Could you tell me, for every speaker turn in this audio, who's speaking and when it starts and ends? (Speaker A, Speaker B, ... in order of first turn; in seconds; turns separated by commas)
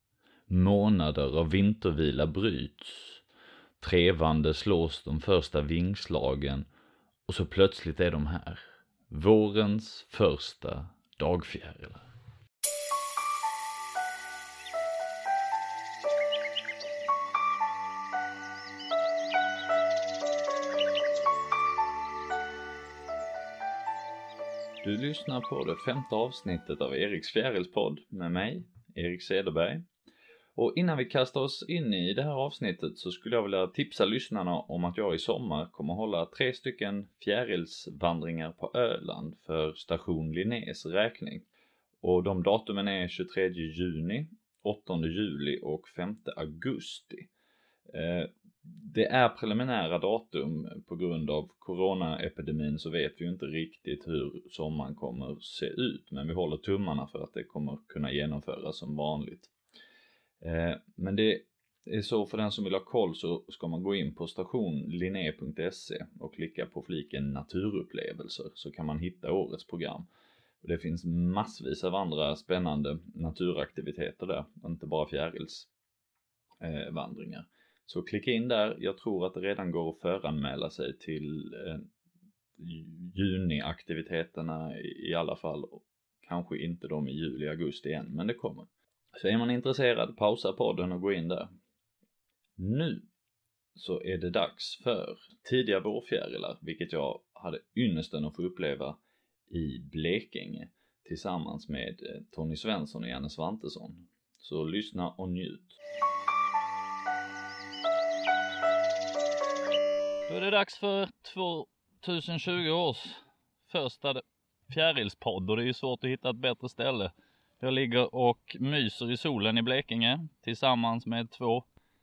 Speaker A: 0.5-3.2, Speaker A: 3.8-6.7, Speaker A: 7.3-12.1, Speaker A: 24.8-29.9, Speaker A: 30.6-41.5, Speaker A: 42.0-47.3, Speaker A: 47.9-59.5, Speaker A: 60.4-70.1, Speaker A: 70.6-75.7, Speaker A: 76.6-81.9, Speaker A: 82.6-91.5, Speaker A: 92.6-93.1, Speaker A: 93.8-105.8, Speaker A: 110.3-121.7